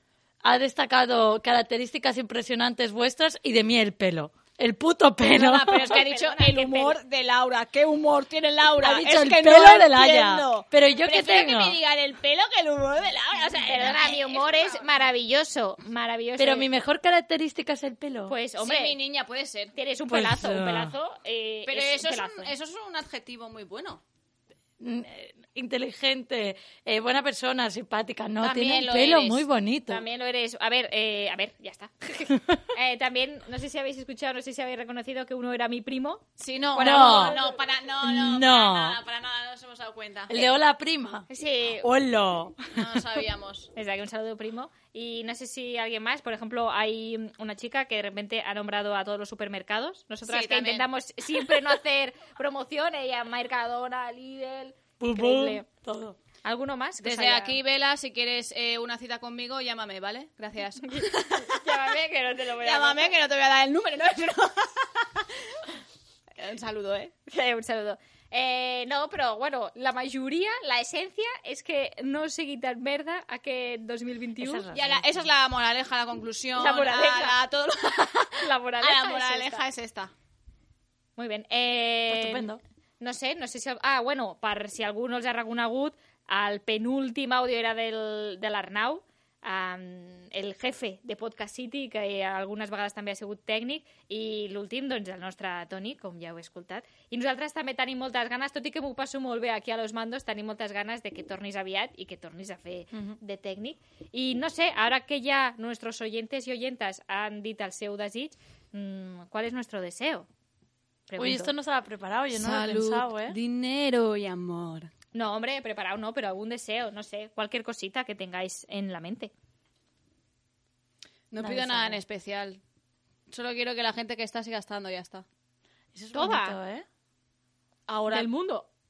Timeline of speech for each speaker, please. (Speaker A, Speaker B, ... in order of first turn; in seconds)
Speaker A: 0.4-5.9, 8.8-11.8, 16.4-18.3, 20.1-20.9, 24.8-30.0, 36.8-37.4, 38.0-39.0, 40.3-41.3, 41.8-42.6, 55.0-56.2, 74.4-75.1, 82.1-82.6, 111.2-113.4, 125.9-126.8
Speaker B: 5.3-14.9, 18.6-19.7, 21.7-24.0, 28.4-29.4, 36.4-40.5, 42.7-43.7, 50.3-50.9, 57.0-61.5, 62.6-64.9, 66.4-67.1, 74.7-80.1, 112.3-114.9, 121.3-122.6, 123.3-125.2, 126.1-126.5, 127.9-128.3
Speaker C: 5.9-7.0, 13.5-16.7, 18.3-18.9, 19.8-22.5, 29.9-36.2, 36.8-37.6, 41.3-41.9, 43.8-55.6, 56.4-57.6, 60.9-63.1, 67.3-74.7, 76.6-77.3, 78.4-79.7, 81.2-82.5, 83.0-110.3, 111.1-111.5, 115.1-119.3, 121.4-122.0, 126.2-126.5, 128.1-128.6